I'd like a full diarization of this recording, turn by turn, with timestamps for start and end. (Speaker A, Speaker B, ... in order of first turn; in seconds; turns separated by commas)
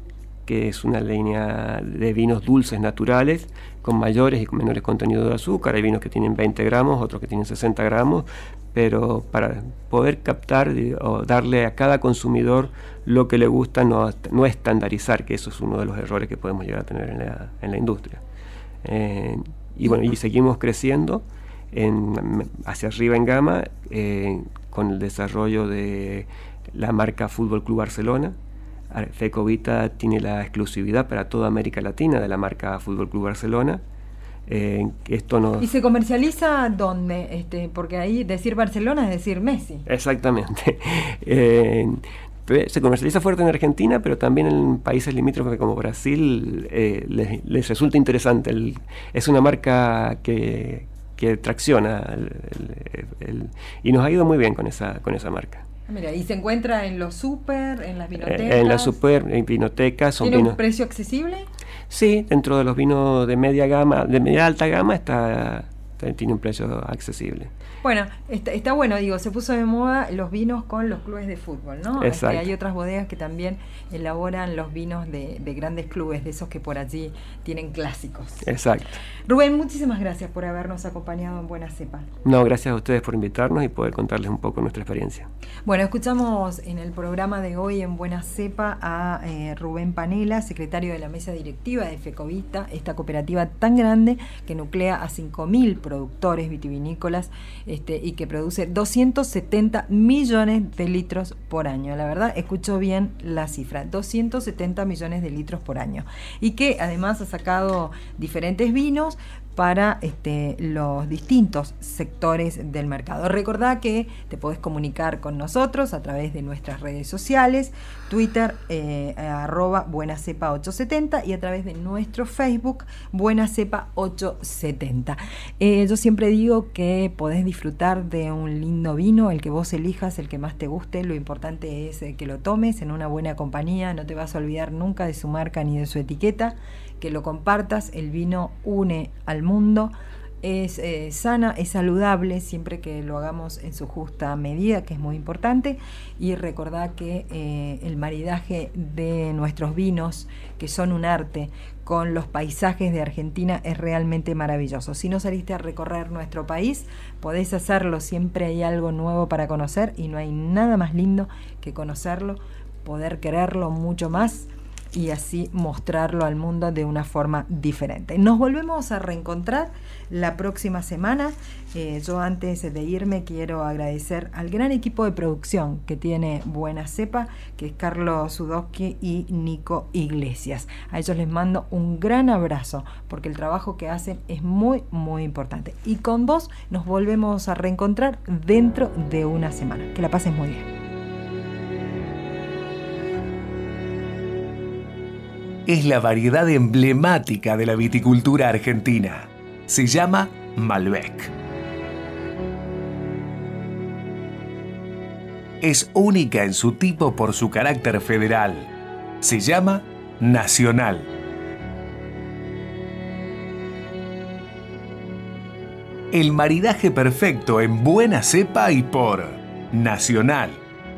Speaker A: 0.4-18.2, Speaker A: 18.8-28.3, Speaker A: 28.9-33.8, Speaker A: 34.5-35.7, Speaker B: 35.6-39.8, Speaker A: 39.9-55.6, Speaker B: 55.9-59.0, Speaker A: 58.2-60.6, Speaker B: 60.2-61.5, Speaker A: 61.9-67.5, Speaker B: 67.8-78.5, Speaker A: 72.0-72.5, Speaker A: 78.4-79.0, Speaker B: 79.2-82.1, Speaker A: 82.2-85.3, Speaker B: 85.6-190.7, Speaker C: 195.7-201.3, Speaker C: 205.6-211.1, Speaker C: 216.1-220.6